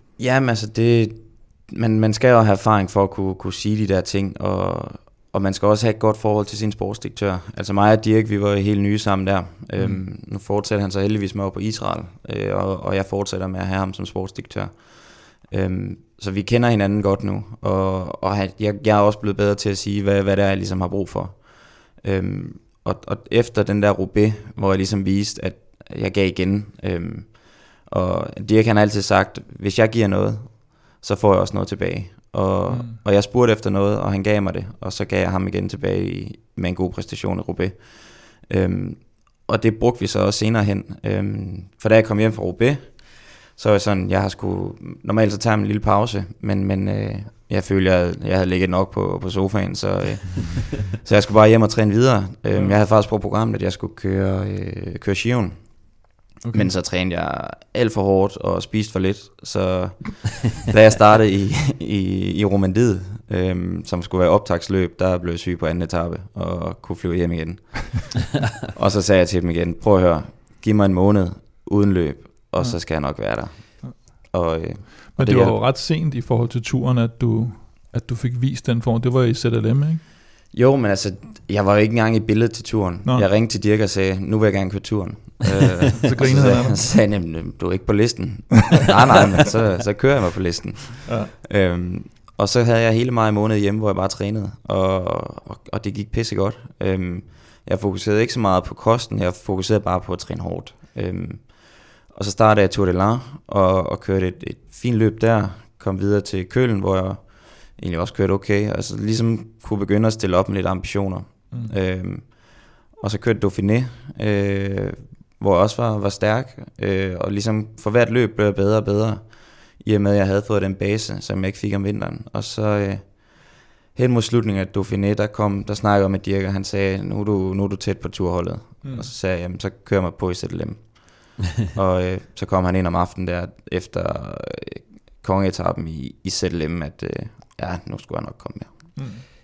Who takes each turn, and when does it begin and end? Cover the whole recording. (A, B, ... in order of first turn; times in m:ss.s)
0:00.2-0:56.0 A
0:09.8-0:10.0 B
0:32.7-0:33.0 B
0:56.4-0:56.7 B
0:56.5-1:15.6 A
1:12.6-1:14.0 B
1:15.1-1:20.0 B
1:20.5-2:19.0 A
1:26.0-1:26.9 B
1:31.0-1:31.3 B
2:08.8-2:09.1 B
2:19.0-2:19.2 B